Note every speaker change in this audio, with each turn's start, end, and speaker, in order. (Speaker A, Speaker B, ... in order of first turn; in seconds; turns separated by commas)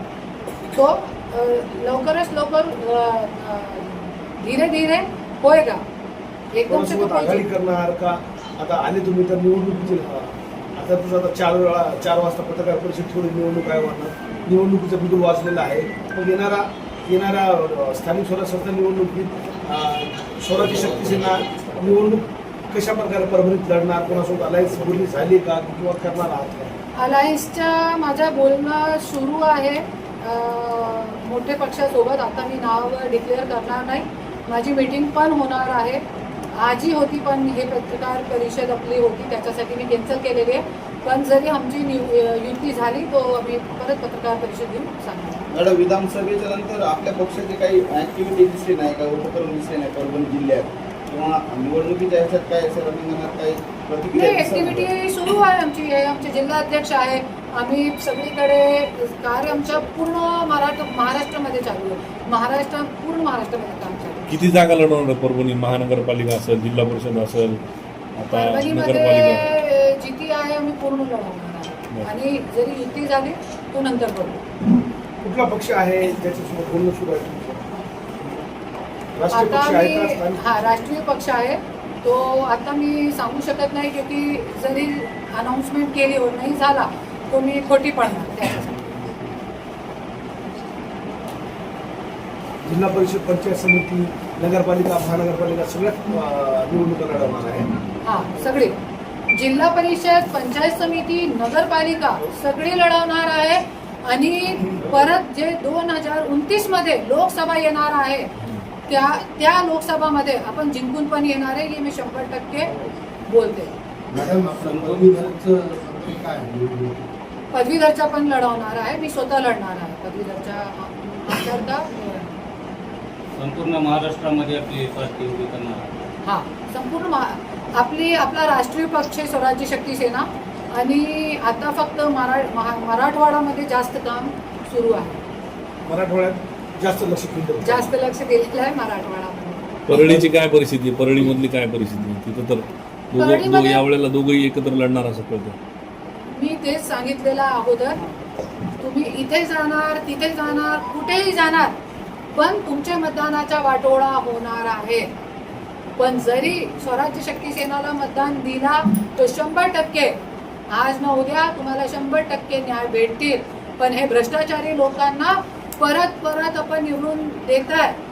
Speaker A: 0.7-5.8, Speaker A: 6.5-7.5, Speaker B: 6.7-26.7, Speaker A: 26.9-45.5, Speaker C: 45.5-54.9, Speaker A: 54.1-64.3, Speaker D: 64.3-67.6, Speaker D: 68.2-69.5, Speaker A: 68.3-74.4, Speaker B: 75.2-77.7, Speaker B: 79.1-80.4, Speaker A: 79.3-88.9, Speaker B: 92.6-97.7, Speaker A: 98.0-98.8, Speaker A: 99.3-108.3, Speaker A: 108.9-112.7, Speaker A: 113.3-113.7, Speaker E: 114.2-116.9, Speaker F: 114.7-115.1, Speaker A: 117.5-122.3, Speaker F: 123.4-125.9, Speaker A: 126.2-135.2, Speaker B: 135.8-137.9, Speaker A: 137.6-139.8, Speaker D: 139.9-145.6, Speaker B: 139.9-140.2, Speaker A: 143.2-143.8, Speaker A: 146.3-148.1, Speaker A: 148.8-151.8, Speaker A: 152.3-155.1, Speaker A: 156.0-160.2, Speaker A: 160.7-168.0